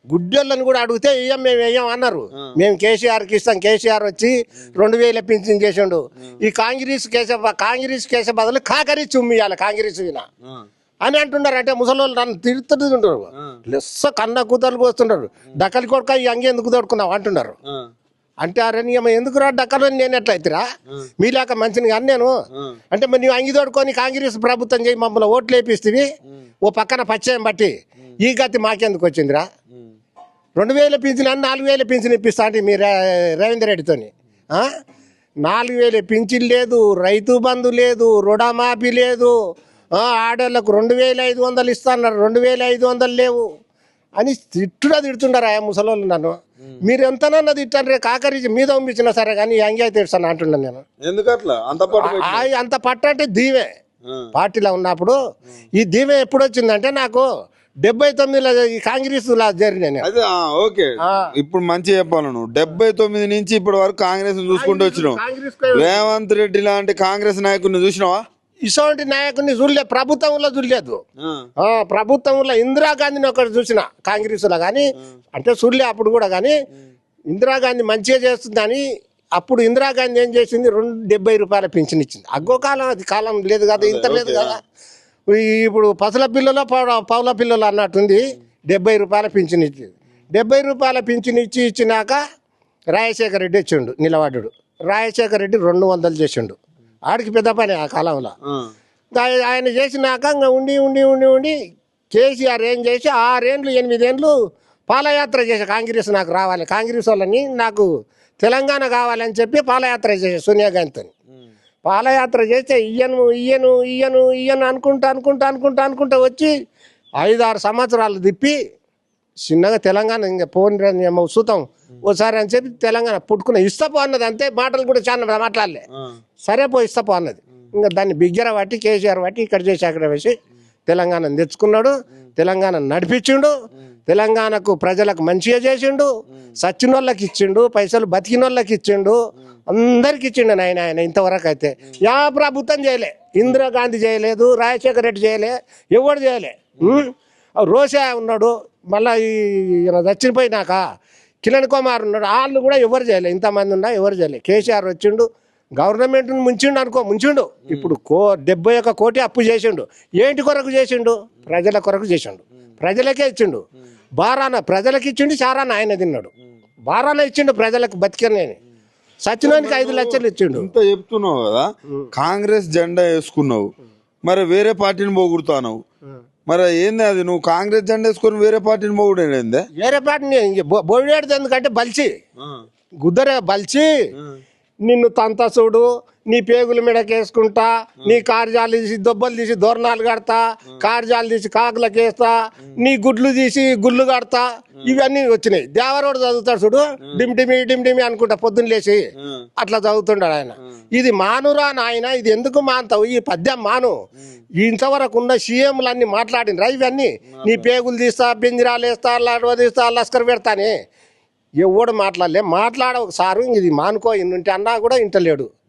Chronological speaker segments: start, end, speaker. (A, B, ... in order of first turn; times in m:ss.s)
0:00.1-0:10.2 A
0:11.0-0:17.6 A
0:18.4-0:20.6 A
0:21.2-0:22.3 A
0:22.9-0:26.1 A
0:26.6-0:27.7 A
0:28.2-0:29.4 A
0:30.6-0:34.7 A
0:35.4-0:39.3 A
0:40.0-0:43.4 A
0:44.2-0:50.8 A
0:51.0-0:52.5 B
0:52.0-0:53.7 A
0:54.3-0:55.1 A
0:55.8-0:57.2 A
0:57.8-1:00.1 A
1:00.0-1:05.2 B
1:01.0-1:01.3 A
1:04.5-1:06.1 A
1:05.7-1:08.2 B
1:08.7-1:11.0 A
1:11.6-1:16.6 A
1:17.3-1:18.8 A
1:19.4-1:24.6 A
1:23.8-1:24.5 B
1:25.3-1:32.2 A
1:32.9-1:36.6 A
1:37.1-1:38.3 A
1:39.1-1:41.5 A
1:42.1-1:44.3 A
1:44.9-1:47.9 A
1:48.4-1:51.1 A
1:51.8-1:56.5 A
1:57.2-1:58.6 A
1:59.5-2:05.8 A
2:06.5-2:10.4 A
2:10.9-2:13.5 A
2:14.1-2:19.2 A
2:19.7-2:27.1 A
2:27.6-2:30.8 A
2:31.4-2:35.2 A
2:35.8-2:43.6 A
2:37.7-2:37.9 B
2:44.2-2:46.3 A
2:46.9-2:48.6 A
2:49.2-2:50.7 A
2:49.4-2:53.7 B
2:54.2-2:55.8 B
2:56.5-2:59.6 B
2:59.8-3:02.1 A
3:03.0-3:03.9 A
3:04.8-3:19.0 A
3:19.6-3:23.9 A
3:24.6-3:30.7 A
3:27.4-3:27.7 B
3:31.6-3:35.5 A